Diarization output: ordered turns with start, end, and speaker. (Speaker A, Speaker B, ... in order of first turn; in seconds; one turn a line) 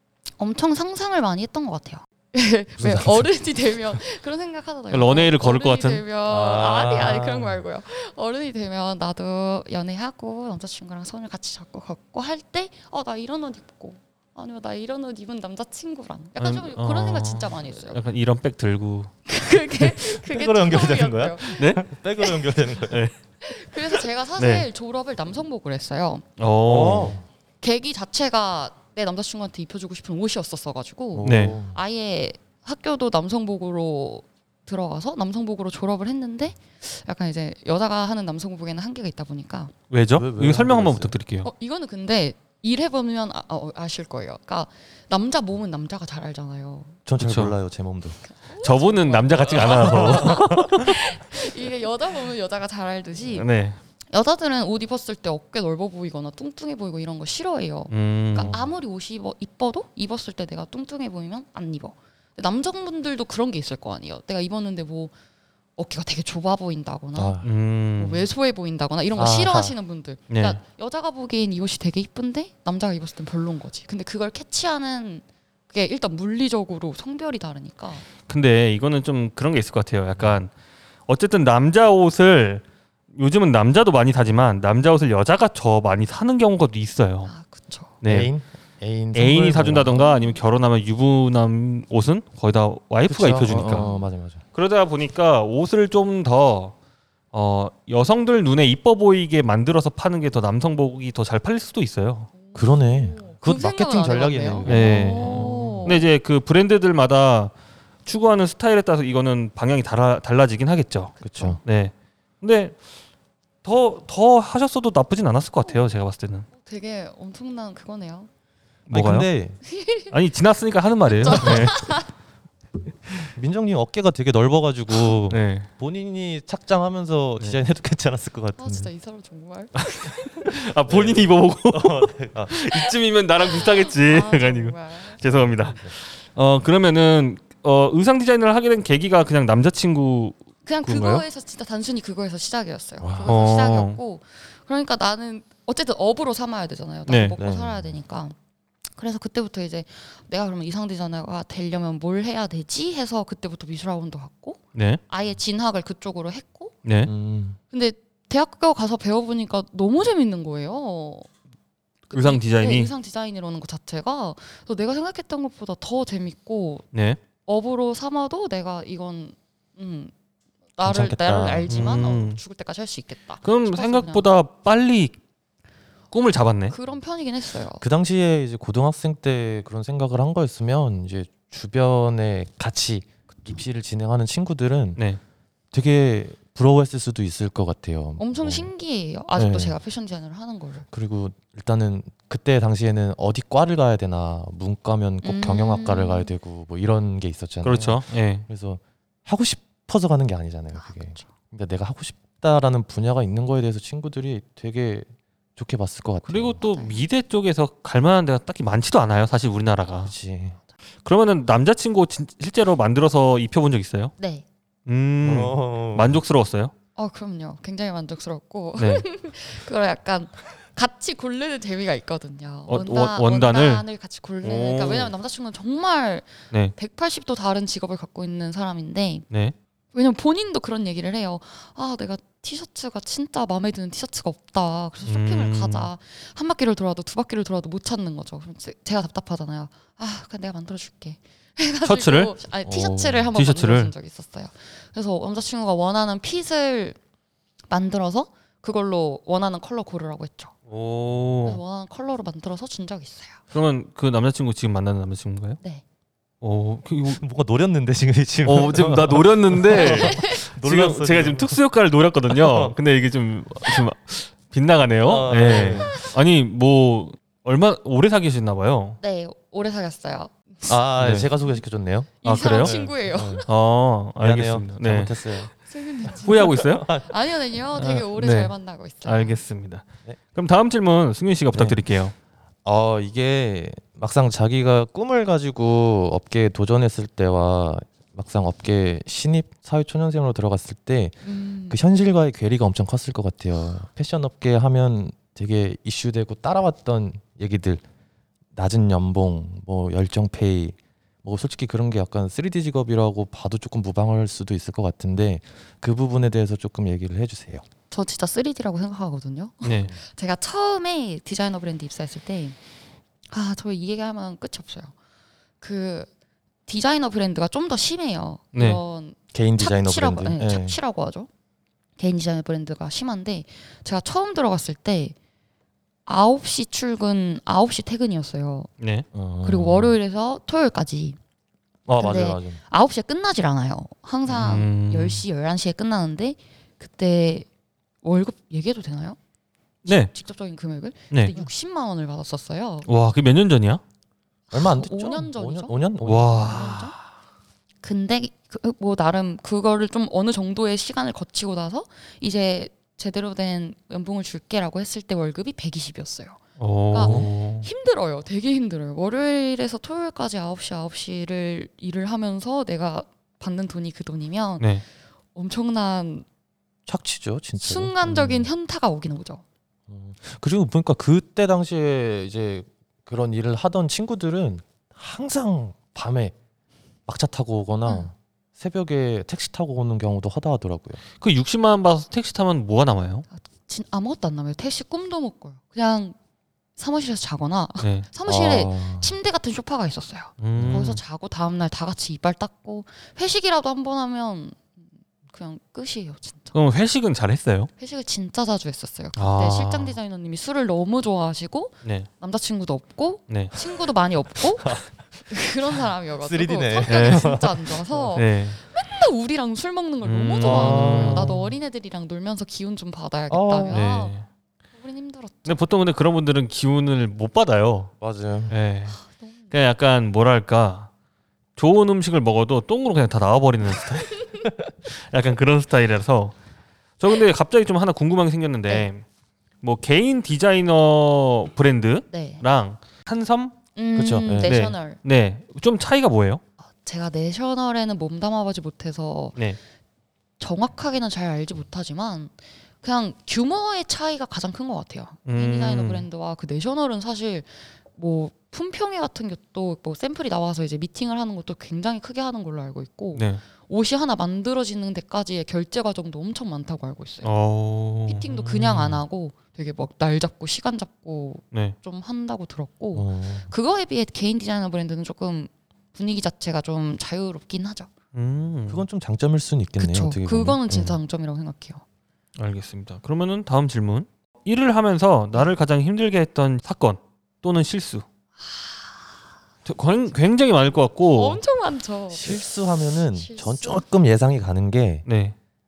Speaker A: 0.4-18.0
Speaker B: 2.8-3.3
Speaker C: 4.9-6.0
Speaker B: 6.2-7.6
Speaker C: 16.4-19.1
Speaker A: 19.2-22.4
Speaker B: 20.0-23.1
Speaker C: 21.6-21.8
Speaker C: 22.9-23.1
Speaker A: 23.4-26.2
Speaker C: 24.4-24.6
Speaker C: 26.4-27.2
Speaker B: 26.6-27.2
Speaker A: 27.6-39.7
Speaker B: 31.1-31.8
Speaker C: 31.2-31.6
Speaker C: 39.9-41.5
Speaker B: 40.1-41.1
Speaker A: 41.4-47.0
Speaker B: 47.0-48.2
Speaker C: 47.2-47.5
Speaker A: 48.2-53.5
Speaker C: 48.6-50.9
Speaker B: 49.6-50.9
Speaker C: 53.3-53.8
Speaker A: 54.1-65.1
Speaker C: 57.9-58.5
Speaker B: 58.4-58.7
Speaker A: 65.8-67.4
Speaker B: 67.1-67.5
Speaker C: 67.4-68.2
Speaker A: 68.0-78.0
Speaker B: 69.1-69.8
Speaker C: 70.3-70.6
Speaker C: 78.3-80.5
Speaker C: 81.1-87.3
Speaker A: 87.2-88.0
Speaker C: 88.0-88.3
Speaker B: 88.0-90.0
Speaker C: 89.1-93.8
Speaker A: 90.0-90.4
Speaker B: 93.1-94.4
Speaker A: 93.6-94.1
Speaker C: 94.5-96.7
Speaker C: 97.3-102.3
Speaker A: 102.3-106.0
Speaker B: 102.5-106.0
Speaker C: 104.7-107.5
Speaker C: 108.0-112.8
Speaker B: 111.2-111.6
Speaker A: 111.3-111.6
Speaker C: 113.6-116.5
Speaker A: 116.5-118.3
Speaker C: 118.9-119.3
Speaker B: 118.9-119.6
Speaker A: 119.6-120.1
Speaker C: 120.1-122.0
Speaker A: 121.1-122.1
Speaker B: 123.3-128.9
Speaker C: 125.3-125.7
Speaker A: 128.6-130.5
Speaker C: 129.8-141.2
Speaker B: 130.9-132.6
Speaker A: 133.4-135.2
Speaker B: 135.4-135.9
Speaker A: 140.7-148.3
Speaker B: 143.0-143.4
Speaker C: 143.2-144.0
Speaker C: 147.1-147.3
Speaker B: 147.4-147.9
Speaker A: 148.9-156.8
Speaker C: 154.7-155.0
Speaker C: 156.8-157.1
Speaker B: 157.0-157.6
Speaker A: 157.7-161.3
Speaker A: 162.1-166.8
Speaker C: 162.1-162.9
Speaker C: 166.9-167.2
Speaker A: 167.4-170.1
Speaker A: 170.8-174.3
Speaker B: 170.8-171.9
Speaker C: 171.7-172.4
Speaker C: 173.4-175.2
Speaker C: 176.1-176.7
Speaker A: 176.7-177.8
Speaker B: 177.8-185.0
Speaker B: 185.7-188.7
Speaker A: 188.2-190.8
Speaker B: 189.3-189.8
Speaker B: 190.9-206.6
Speaker A: 195.2-196.3
Speaker C: 197.6-198.4
Speaker A: 200.8-201.2
Speaker C: 206.2-210.1
Speaker A: 206.6-207.0
Speaker B: 210.0-210.6
Speaker C: 211.0-214.1
Speaker A: 214.2-214.4
Speaker C: 214.9-216.7
Speaker B: 215.2-216.2
Speaker A: 216.9-229.2
Speaker C: 218.8-219.0
Speaker C: 222.7-223.8
Speaker C: 224.4-225.1
Speaker C: 229.3-229.5
Speaker A: 229.9-247.0
Speaker C: 235.1-235.9
Speaker C: 241.8-242.3
Speaker B: 242.6-243.3
Speaker C: 243.3-243.9
Speaker A: 247.7-250.5
Speaker C: 250.7-251.6
Speaker A: 251.4-253.4
Speaker C: 253.5-255.6
Speaker C: 256.4-257.2
Speaker B: 257.1-261.6
Speaker C: 258.4-269.0
Speaker A: 259.7-260.4
Speaker B: 262.3-262.8
Speaker B: 265.0-266.0
Speaker A: 265.6-266.1
Speaker A: 269.0-270.8
Speaker B: 270.7-273.4
Speaker C: 271.0-271.3
Speaker A: 272.2-273.5
Speaker C: 272.2-272.8
Speaker C: 273.5-275.4
Speaker B: 274.2-275.5
Speaker A: 275.7-279.4
Speaker C: 276.2-276.9
Speaker B: 276.3-277.1
Speaker C: 277.7-282.1
Speaker B: 281.5-281.8
Speaker B: 282.6-297.8
Speaker A: 291.2-291.8
Speaker B: 298.5-307.6
Speaker A: 307.9-312.6
Speaker C: 309.6-309.9
Speaker A: 313.3-314.9
Speaker A: 315.6-316.1
Speaker A: 316.7-321.3
Speaker C: 318.5-318.8
Speaker B: 319.3-320.8
Speaker A: 322.0-325.1
Speaker A: 326.1-328.7
Speaker C: 328.8-329.1
Speaker B: 329.1-329.9
Speaker A: 329.4-331.2
Speaker B: 331.9-332.6
Speaker A: 332.0-337.5
Speaker C: 334.3-335.2
Speaker A: 338.0-339.2
Speaker C: 339.9-340.1
Speaker A: 339.9-342.9
Speaker C: 342.9-343.8
Speaker A: 344.5-346.9
Speaker B: 344.5-346.8
Speaker C: 346.0-347.0
Speaker A: 347.8-364.7
Speaker C: 356.6-357.7
Speaker B: 357.0-357.3
Speaker A: 365.3-366.2
Speaker B: 366.9-368.5
Speaker A: 367.6-369.4
Speaker B: 369.9-376.3
Speaker B: 377.1-381.0
Speaker A: 377.9-378.1
Speaker C: 381.2-383.2
Speaker A: 383.3-386.1
Speaker A: 386.8-394.7
Speaker C: 387.8-388.1
Speaker B: 388.2-389.1
Speaker C: 390.4-391.0
Speaker B: 390.5-391.0
Speaker A: 395.3-396.5
Speaker C: 396.5-397.7
Speaker A: 397.8-414.1
Speaker C: 399.1-399.9
Speaker C: 401.8-402.1
Speaker B: 406.2-408.1
Speaker C: 406.9-407.4
Speaker C: 408.1-408.6
Speaker C: 410.0-411.4
Speaker B: 410.4-411.5
Speaker B: 413.3-413.9
Speaker C: 413.7-414.2
Speaker A: 414.8-415.6
Speaker C: 415.4-417.9
Speaker B: 418.0-418.5
Speaker C: 418.5-419.0
Speaker A: 419.0-419.3
Speaker C: 419.5-420.9
Speaker C: 421.6-426.3
Speaker C: 427.0-429.0
Speaker C: 429.6-433.5
Speaker A: 432.1-432.4
Speaker A: 433.8-435.0
Speaker B: 433.9-434.6
Speaker C: 434.4-436.4
Speaker A: 436.8-439.4
Speaker A: 440.4-457.3
Speaker C: 445.2-446.1
Speaker C: 453.1-453.4
Speaker C: 457.2-458.3
Speaker A: 458.1-467.9
Speaker B: 458.4-459.0
Speaker B: 462.9-463.5
Speaker C: 468.1-468.8
Speaker B: 468.7-471.0
Speaker A: 469.8-471.8
Speaker C: 472.4-478.0
Speaker A: 478.4-478.9
Speaker C: 479.6-481.4
Speaker A: 481.1-483.8
Speaker B: 482.1-485.0
Speaker C: 485.1-485.3